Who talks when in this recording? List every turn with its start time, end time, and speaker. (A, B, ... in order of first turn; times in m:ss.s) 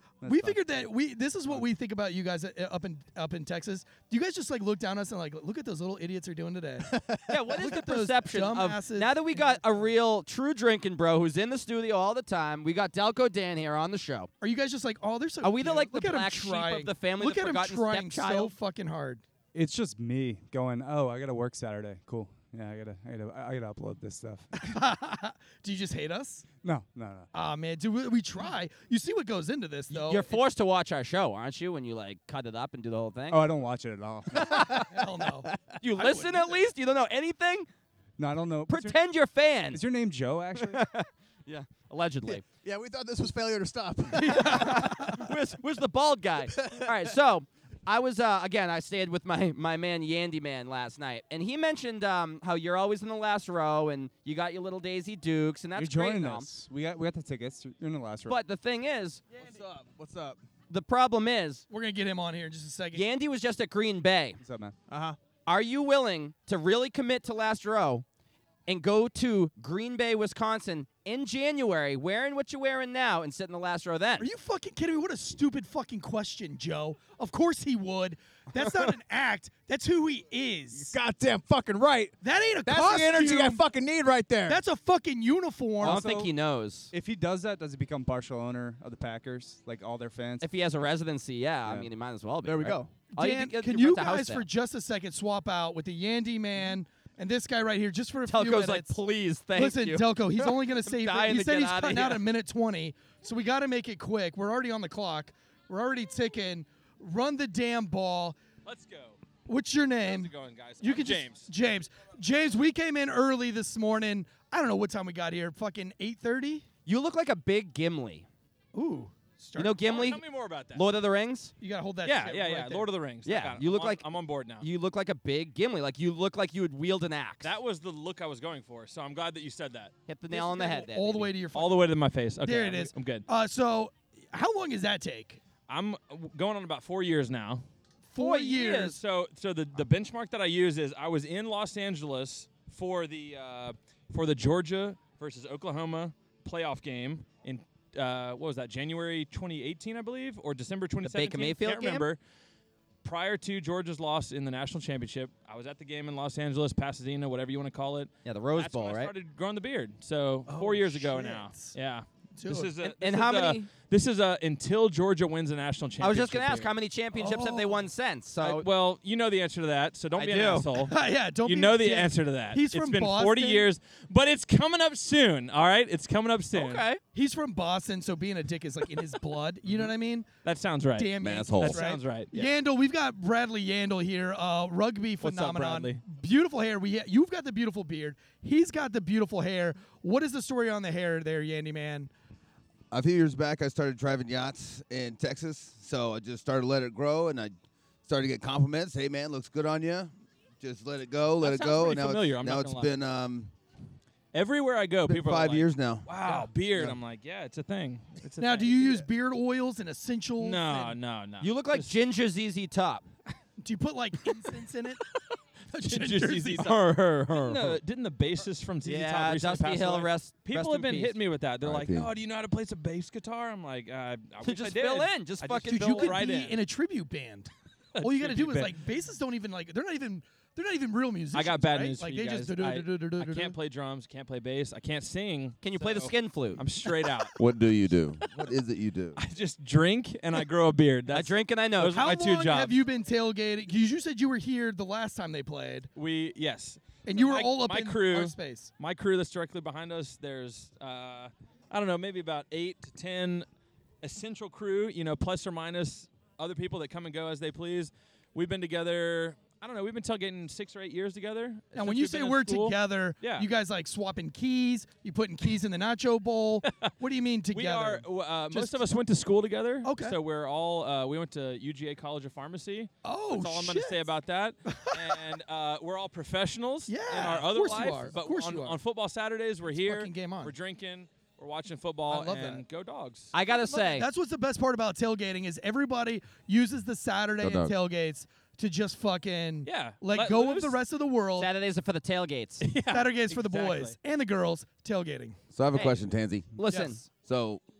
0:00.2-0:00.9 A
0:00.2-0:06.9 B
0:06.8-0:07.7 C
0:07.3-0:14.3 D
0:07.6-0:09.6 B
0:14.4-0:19.2 B
0:15.4-0:18.5 D
0:19.5-0:24.7 A
0:24.6-0:26.4 B
0:26.6-0:27.3 A
0:27.3-0:30.3 B
0:29.9-0:33.4 D
0:33.3-0:34.7 A
0:34.4-0:34.9 D
0:34.4-0:35.6 C
0:34.9-0:36.6 B
0:35.8-0:37.7 D
0:38.2-0:39.0 A
0:38.7-0:39.8 D
0:39.7-0:40.8 A
0:40.6-0:42.4 D
0:42.6-0:45.0 C
0:44.1-0:45.2 B
0:44.3-0:56.5 D
0:46.6-0:46.9 C
0:55.7-0:58.4 A
0:58.3-0:59.2 D
0:59.4-1:00.4 C
1:00.7-1:01.6 D
1:01.7-1:03.0 B
1:02.9-1:04.4 D
1:04.4-1:04.8 A
1:04.9-1:05.2 C
1:05.4-1:08.0 D
1:08.7-1:14.3 D
1:14.2-1:20.9 B
1:20.7-1:24.6 C
1:22.2-1:23.6 B
1:24.5-1:26.0 B
1:25.8-1:26.9 D
1:25.8-1:26.3 A
1:26.9-1:30.5 A
1:30.4-1:34.4 D
1:32.4-1:32.9 C
1:33.1-1:39.0 B
1:38.3-1:42.2 D
1:39.5-1:48.4 B
1:48.6-1:49.2 E
1:49.5-1:56.6 B
1:50.0-1:51.5 E
1:56.8-1:58.2 D
1:58.7-1:59.8 B
1:59.6-2:01.5 D
1:59.8-2:00.8 E
2:01.6-2:02.9 B
2:02.0-2:04.6 E
2:03.2-2:04.0 D
2:04.6-2:07.5 D
2:07.4-2:09.9 E
2:10.1-2:11.3 D
2:10.3-2:15.4 B
2:11.5-2:13.2 E
2:15.7-2:17.6 E
2:18.1-2:19.0 B
2:18.2-2:19.0 D
2:18.8-2:32.2 E
2:31.0-2:32.1 D
2:33.0-2:46.7 E
2:38.2-2:39.1 D
2:40.5-2:41.8 B
2:42.4-2:42.7 B
2:42.8-2:43.7 D
2:46.0-2:48.6 D
2:47.1-2:47.8 B
2:48.4-2:56.8 E
2:50.2-2:50.7 D
2:50.8-2:53.7 B
2:56.5-2:57.0 D
2:57.1-3:00.3 B
3:00.4-3:02.5 E
3:01.0-3:12.1 B
3:01.2-3:01.8 F
3:05.2-3:06.0 E
3:12.9-3:17.5 F
3:18.0-3:23.5 F
3:21.4-3:22.9 E
3:24.3-3:29.0 E
3:25.1-3:26.1 F
3:28.4-3:31.0 B
3:30.4-3:32.0 E
3:31.4-3:33.0 D
3:33.6-3:35.0 B
3:35.7-3:36.8 B
3:35.8-3:46.6 E
3:36.6-3:37.8 D
3:38.8-3:41.1 D
3:41.6-3:42.1 F
3:44.4-3:46.2 D
3:45.6-3:53.6 B
3:47.9-3:48.7 E
3:51.3-3:57.3 E
3:55.6-3:56.6 D
3:57.4-3:59.2 F
3:59.2-4:02.8 E
4:01.1-4:02.0 D
4:01.9-4:05.9 B
4:06.0-4:13.5 E
4:07.0-4:08.7 B
4:14.0-4:23.5 E
4:21.7-4:28.8 B
4:26.6-4:26.9 E
4:27.5-4:43.3 E
4:29.8-4:30.2 B
4:33.0-4:34.0 B
4:34.6-4:35.2 B
4:36.9-4:38.8 B
4:39.7-4:40.5 B
4:42.1-4:42.6 B
4:43.3-4:44.1 D
4:43.5-4:51.5 B
4:47.4-4:47.7 F
4:49.6-4:50.8 E
4:51.4-4:52.6 D
4:52.6-4:54.0 E
4:52.9-4:55.4 B
4:55.5-4:57.6 F
4:55.7-4:56.0 D
4:56.5-4:57.0 D
4:56.6-4:57.1 B